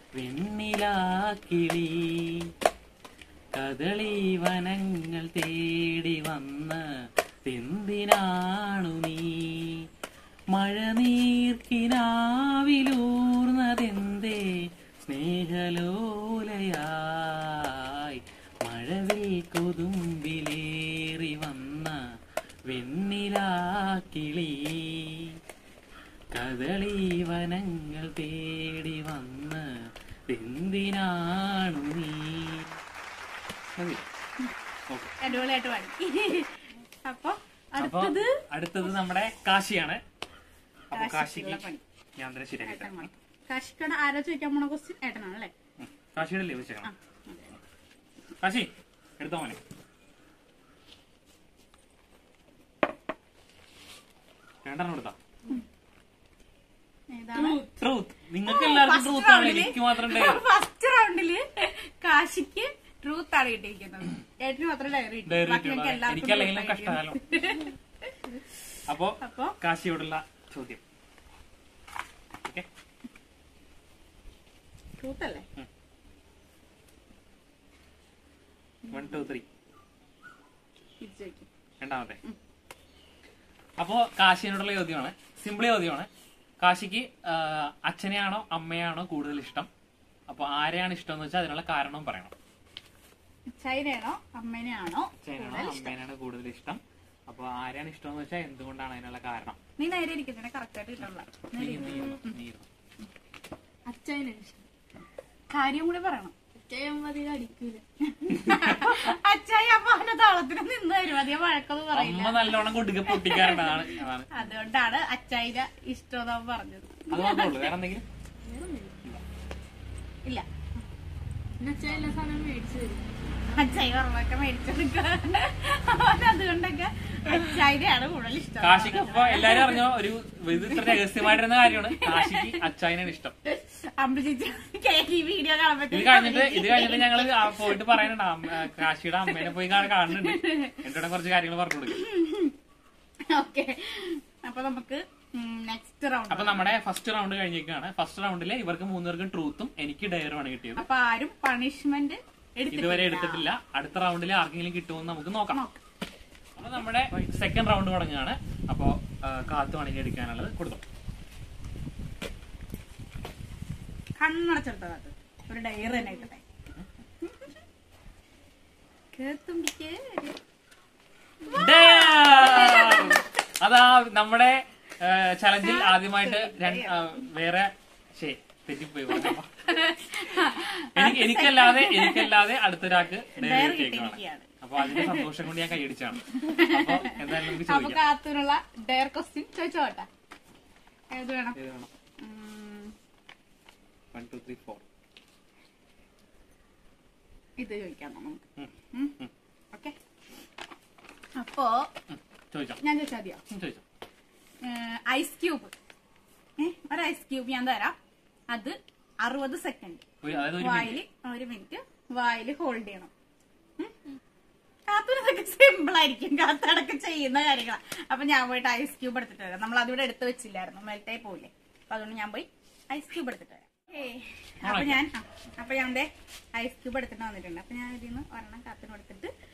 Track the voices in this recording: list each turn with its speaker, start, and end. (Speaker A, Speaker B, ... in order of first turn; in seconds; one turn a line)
Speaker A: 0.2-2.5
Speaker A: 3.5-9.9
Speaker A: 10.5-22.1
Speaker A: 22.7-25.4
Speaker A: 26.3-32.8
Speaker A: 33.7-34.1
Speaker A: 34.9-35.2
Speaker B: 35.2-38.4
Speaker A: 37.8-40.0
Speaker A: 40.9-43.1
Speaker B: 40.9-41.8
Speaker B: 42.6-45.5
Speaker A: 45.8-46.9
Speaker B: 46.8-47.5
Speaker A: 48.4-49.6
Speaker A: 54.6-55.2
Speaker B: 57.1-57.6
Speaker C: 57.4-57.8
Speaker A: 57.8-60.4
Speaker B: 58.5-68.4
Speaker A: 65.3-67.2
Speaker A: 68.9-70.8
Speaker B: 69.2-69.6
Speaker B: 75.0-75.5
Speaker B: 78.9-79.3
Speaker A: 78.9-79.5
Speaker B: 81.0-81.5
Speaker A: 81.8-82.2
Speaker A: 83.8-86.1
Speaker A: 86.6-89.7
Speaker A: 90.3-92.3
Speaker B: 93.5-96.0
Speaker A: 95.2-99.6
Speaker B: 99.8-102.3
Speaker A: 101.5-102.7
Speaker C: 101.8-102.2
Speaker C: 103.9-104.6
Speaker B: 105.5-106.3
Speaker C: 106.7-107.8
Speaker B: 108.0-117.7
Speaker A: 108.3-109.2
Speaker A: 111.9-114.4
Speaker A: 117.1-118.0
Speaker C: 118.4-119.0
Speaker C: 121.6-123.6
Speaker B: 123.5-129.9
Speaker A: 127.3-127.6
Speaker A: 128.6-133.4
Speaker B: 130.5-132.6
Speaker B: 133.5-139.6
Speaker A: 135.9-142.0
Speaker B: 140.1-140.8
Speaker B: 141.9-142.6
Speaker B: 143.3-146.7
Speaker A: 146.3-150.9
Speaker B: 150.8-153.5
Speaker A: 152.7-155.6
Speaker B: 155.5-155.8
Speaker A: 156.6-160.8
Speaker B: 164.2-166.4
Speaker B: 167.2-167.5
Speaker B: 169.1-170.4
Speaker B: 171.5-173.2
Speaker A: 171.5-179.5
Speaker B: 175.6-177.2
Speaker B: 179.2-182.3
Speaker A: 180.9-188.0
Speaker B: 183.3-185.3
Speaker B: 186.3-190.1
Speaker B: 191.1-191.6
Speaker A: 191.6-191.9
Speaker B: 192.2-192.9
Speaker A: 194.1-194.8
Speaker B: 197.6-199.2
Speaker A: 198.6-199.3
Speaker B: 201.4-201.9
Speaker A: 202.1-202.8
Speaker B: 202.8-203.4
Speaker A: 203.5-203.8
Speaker B: 204.6-205.7
Speaker B: 206.6-208.0
Speaker B: 208.5-213.1
Speaker A: 210.2-211.0
Speaker B: 214.9-229.3
Speaker A: 224.6-225.1